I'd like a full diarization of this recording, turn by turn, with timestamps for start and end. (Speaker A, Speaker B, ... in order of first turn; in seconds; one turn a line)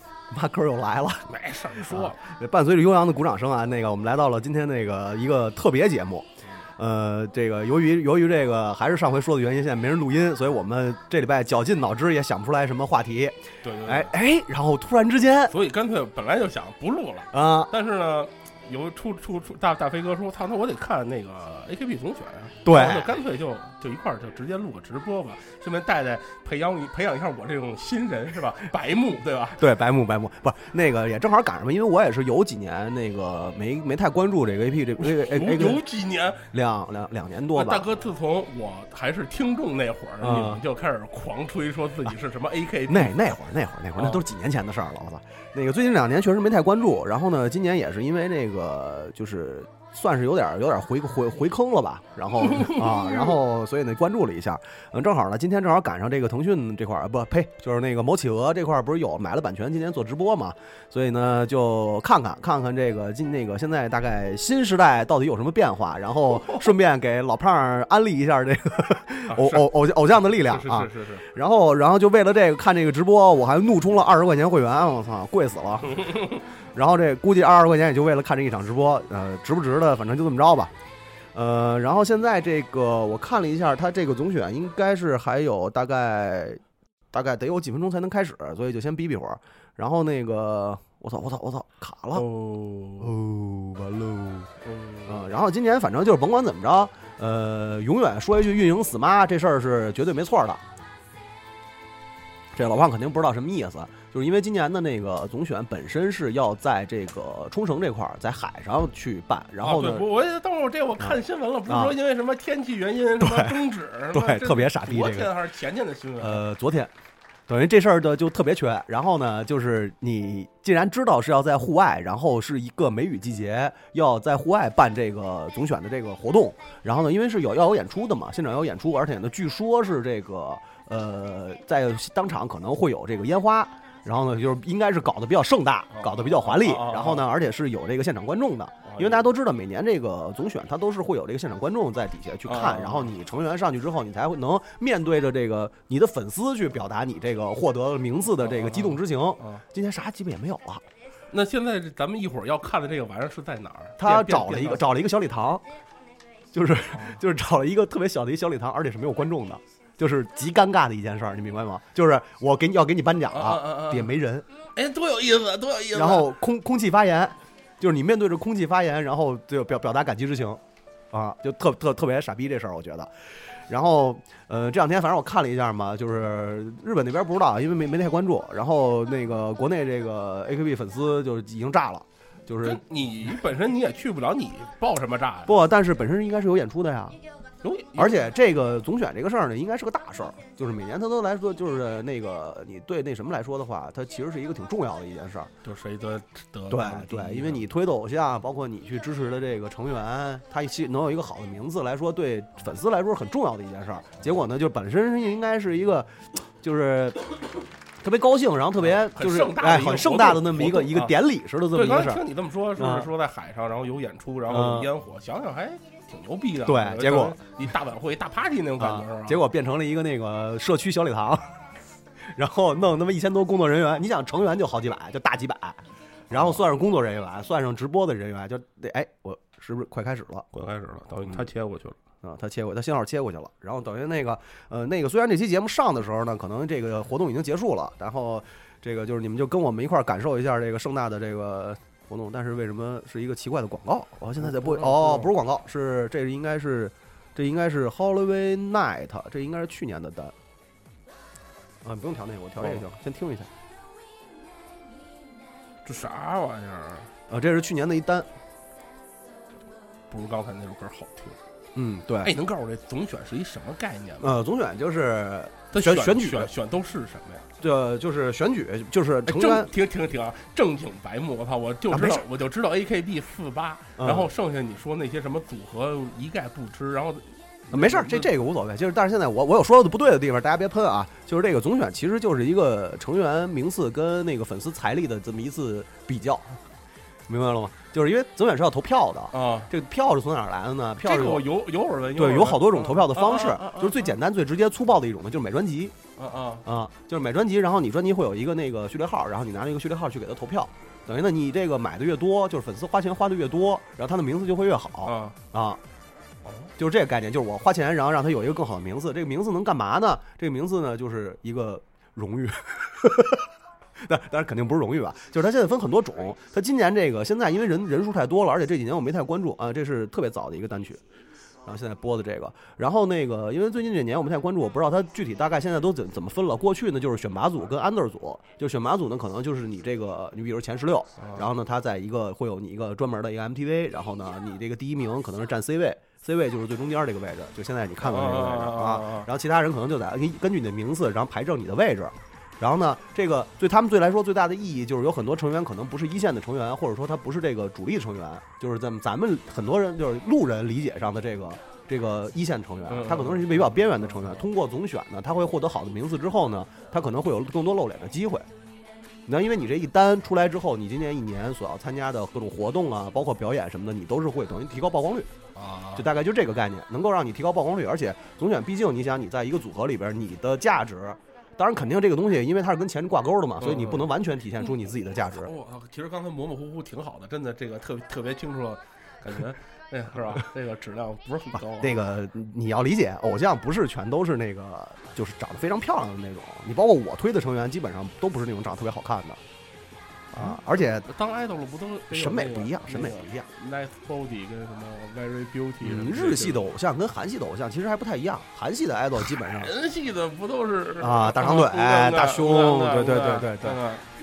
Speaker A: 0.3-1.3
Speaker B: 1.3-2.2
Speaker A: 1.8-15.5
Speaker B: 13.6-14.1
Speaker B: 15.5-29.6
Speaker A: 17.3-17.7
Speaker A: 22.6-23.1
Speaker A: 29.6-35.8
Speaker B: 35.0-36.5
Speaker A: 36.5-37.9
Speaker B: 37.5-43.3
Speaker A: 40.2-40.6
Speaker A: 42.9-76.1
Speaker B: 44.0-44.2
Speaker B: 52.4-53.3
Speaker B: 69.3-69.7
Speaker B: 70.3-71.3
Speaker B: 75.9-76.4
Speaker A: 76.7-80.7
Speaker A: 81.3-86.6
Speaker A: 87.1-92.2
Speaker B: 92.1-93.1
Speaker A: 93.0-94.5
Speaker B: 94.6-95.2
Speaker A: 95.0-100.6
Speaker A: 102.5-110.1
Speaker B: 109.6-116.4
Speaker A: 111.7-111.9
Speaker A: 113.2-113.6
Speaker A: 114.1-115.3
Speaker A: 116.2-116.9
Speaker A: 117.5-150.8
Speaker B: 135.9-137.3
Speaker B: 138.8-139.2
Speaker B: 142.5-143.1
Speaker B: 148.4-149.6
Speaker B: 151.3-154.9
Speaker A: 154.0-155.7
Speaker A: 156.5-164.5
Speaker B: 156.9-157.2
Speaker B: 163.3-164.2
Speaker B: 164.8-166.3
Speaker A: 165.9-173.1
Speaker A: 173.7-182.8
Speaker B: 182.6-185.6
Speaker A: 185.5-187.2
Speaker B: 187.6-188.3
Speaker A: 187.9-195.5
Speaker B: 195.6-197.7
Speaker A: 196.7-207.2
Speaker A: 208.0-212.2
Speaker B: 208.8-211.2
Speaker B: 211.7-219.4
Speaker A: 212.8-213.1
Speaker A: 214.5-214.9
Speaker A: 216.6-217.4
Speaker A: 218.8-221.6
Speaker A: 222.3-230.5
Speaker B: 226.3-226.6
Speaker B: 230.5-232.0
Speaker A: 232.2-250.3
Speaker B: 244.4-245.3
Speaker A: 251.8-253.5
Speaker B: 252.6-252.8
Speaker B: 255.8-257.1
Speaker A: 257.3-258.3
Speaker B: 260.1-261.4
Speaker A: 261.8-262.3
Speaker B: 262.2-264.4
Speaker A: 264.2-266.5
Speaker B: 265.7-267.4
Speaker A: 267.6-269.7
Speaker B: 269.3-278.4
Speaker A: 271.9-272.2
Speaker A: 274.0-274.3
Speaker A: 277.7-286.4
Speaker A: 287.3-291.5
Speaker B: 289.3-289.7
Speaker B: 291.0-294.1
Speaker A: 292.1-295.9
Speaker B: 296.2-296.7
Speaker A: 296.6-305.8
Speaker B: 305.0-305.4
Speaker B: 306.4-306.7
Speaker A: 306.8-313.5
Speaker A: 314.0-321.0
Speaker A: 321.6-358.5
Speaker B: 331.2-331.4
Speaker B: 338.0-339.3
Speaker B: 352.9-354.4
Speaker A: 359.2-365.3
Speaker B: 365.6-366.1
Speaker A: 365.9-375.5
Speaker B: 373.6-374.1
Speaker B: 375.3-382.1
Speaker A: 381.8-389.4
Speaker A: 390.3-391.1
Speaker B: 390.4-396.7
Speaker A: 392.1-393.5
Speaker A: 395.8-399.7
Speaker B: 399.4-404.0
Speaker A: 401.0-403.8